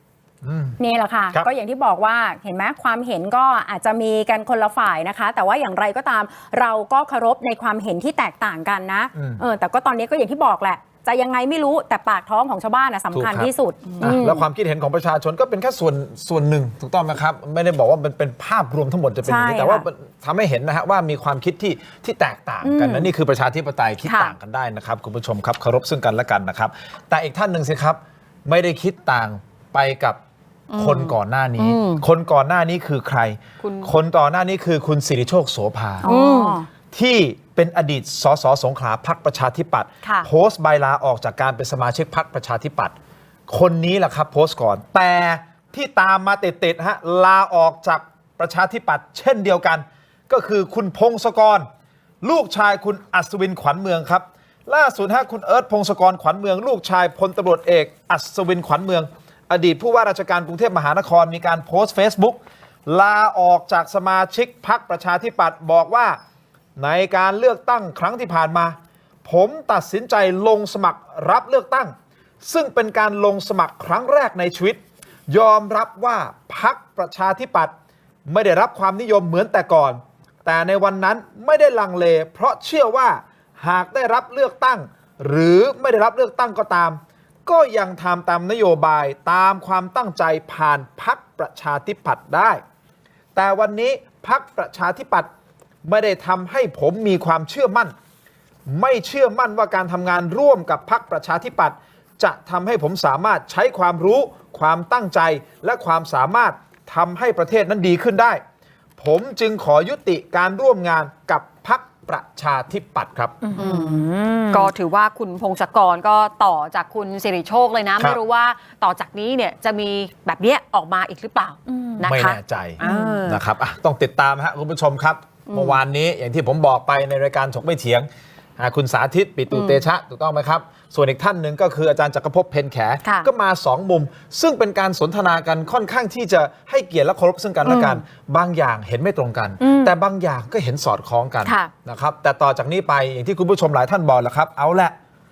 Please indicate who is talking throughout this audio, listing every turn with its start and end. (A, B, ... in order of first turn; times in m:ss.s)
0:00.4-0:00.8 A
0:00.8-0:14.4 B
0:09.2-0:09.4 A
0:13.1-0:13.5 A
0:14.0-0:30.2 A
0:19.2-0:19.8 B
0:22.6-0:23.1 B
0:24.0-0:24.3 C
0:30.7-0:32.0 C
0:30.8-0:36.1 A
0:33.6-0:33.9 C
0:36.0-0:36.6 C
0:36.0-0:36.7 B
0:36.9-0:43.0 A
0:40.0-0:40.3 C
0:43.5-0:51.7 A
0:52.2-1:06.2 A
1:06.8-1:17.7 A
1:18.3-1:32.6 A
1:33.4-1:35.3 A
1:35.8-1:37.9 A
1:38.7-1:48.4 A
1:49.0-1:53.4 A
1:53.4-1:54.7 B
1:53.6-2:03.4 C
2:01.7-2:02.0 B
2:02.0-2:25.0 A
2:02.8-2:03.3 B
2:05.5-2:05.8 C
2:09.5-2:09.8 C
2:13.0-2:13.3 C
2:17.6-2:18.0 C
2:19.6-2:19.9 B
2:21.4-2:21.7 C